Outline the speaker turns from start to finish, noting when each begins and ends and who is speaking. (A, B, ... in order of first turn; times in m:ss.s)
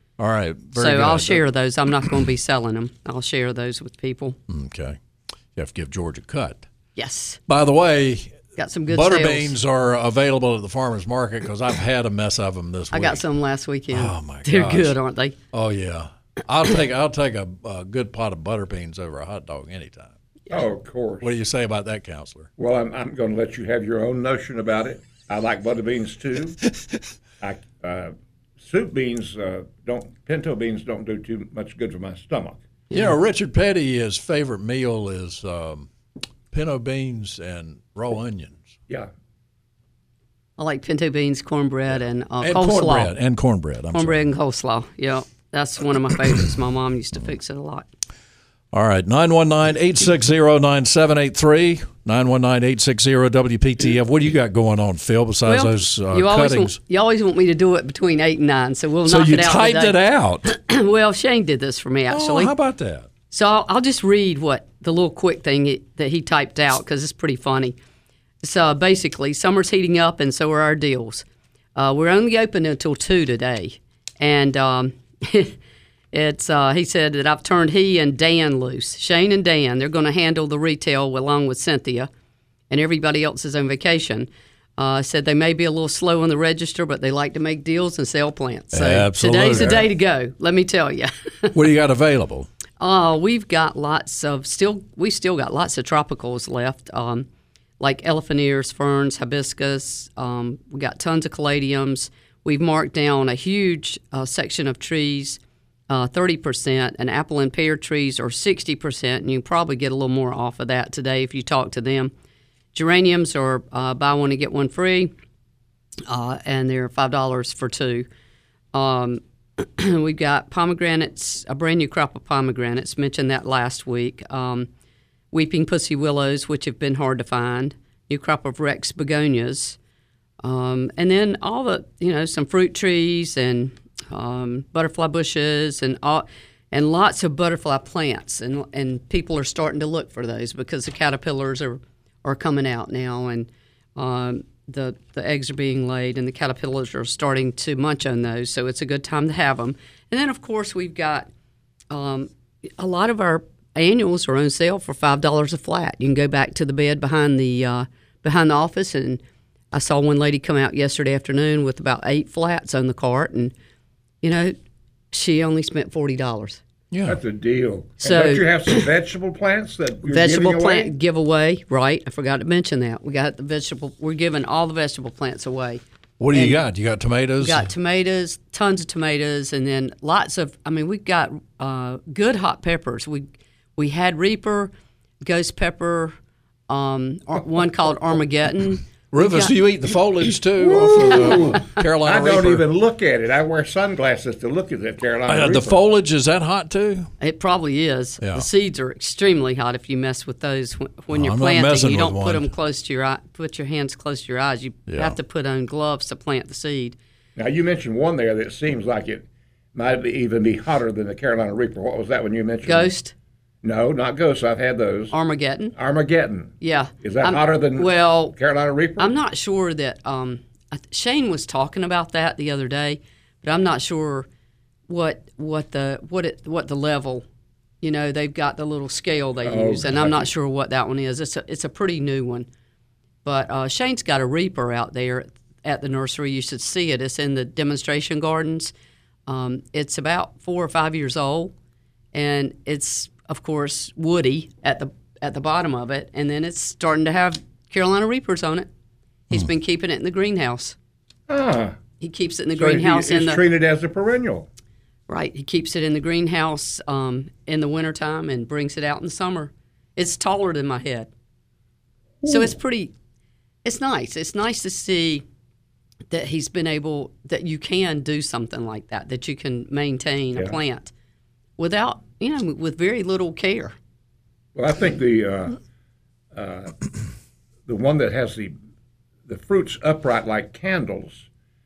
0:00.2-0:01.4 A
0:00.8-0:04.4 B
0:04.5-0:05.0 A
0:05.5-0:06.6 A
0:07.0-0:07.4 B
0:07.5-0:08.4 A
0:08.6-0:09.5 B
0:08.9-0:13.2 A
0:12.9-0:15.4 B
0:13.9-0:15.0 A
0:15.5-0:20.1 A
0:20.5-0:21.3 C
0:21.2-0:22.5 A
0:22.6-0:26.6 C
0:27.4-0:32.6 C
0:32.9-0:35.9 A
0:36.5-0:38.7 A
0:40.6-0:43.1 B
0:42.4-0:44.2 A
0:43.9-0:47.9 B
0:48.7-0:56.8 A
0:55.4-1:02.5 B
0:59.0-1:00.5 A
1:02.1-1:03.1 A
1:03.3-1:07.8 B
1:08.4-1:11.2 B
1:11.8-1:15.5 B
1:16.1-1:22.1 B
1:22.7-1:31.5 B
1:28.7-1:29.8 A
1:31.5-1:32.5 A
1:32.8-1:37.3 B
1:37.8-1:52.1 B
1:52.7-1:55.1 B
1:56.1-1:58.1 B
1:58.7-2:04.7 B
2:05.3-2:09.8 B
2:10.4-2:31.3 B
2:31.9-2:39.2 B
2:39.7-2:43.5 B
2:44.2-2:44.6 B
2:45.1-2:46.6 B
2:46.9-2:47.2 A
2:47.0-2:50.9 C
2:48.0-2:48.8 B
2:50.1-2:55.8 B
2:56.2-2:57.7 A
2:56.3-2:56.6 B
2:57.4-3:06.1 B
3:06.7-3:09.5 B
3:09.1-3:12.6 A
3:10.6-3:15.8 C
3:15.3-3:17.1 A
3:17.2-3:27.0 B
3:18.2-3:18.5 A
3:21.1-3:22.5 A
3:24.9-3:25.2 A
3:27.4-3:32.9 C
3:32.6-3:33.1 B
3:33.6-3:35.1 C
3:35.1-3:35.8 B
3:35.8-3:39.2 C
3:36.6-3:38.3 B
3:39.0-3:44.3 B
3:44.9-3:47.2 B
3:47.8-3:52.5 B
3:49.4-3:50.3 C
3:53.2-3:58.7 B
3:59.3-4:01.5 B
4:02.1-4:08.7 B
4:09.3-4:10.8 B
4:11.3-4:11.8 C
4:12.0-4:13.4 B
4:12.6-4:14.5 C
4:15.1-4:21.1 B
4:22.2-4:22.5 C
4:22.2-4:22.9 B
4:23.6-4:25.2 B
4:26.1-4:30.9 B
4:31.6-4:33.7 B
4:34.5-4:35.6 C
4:36.3-4:37.0 C
4:37.7-4:38.5 C
4:39.3-4:41.3 C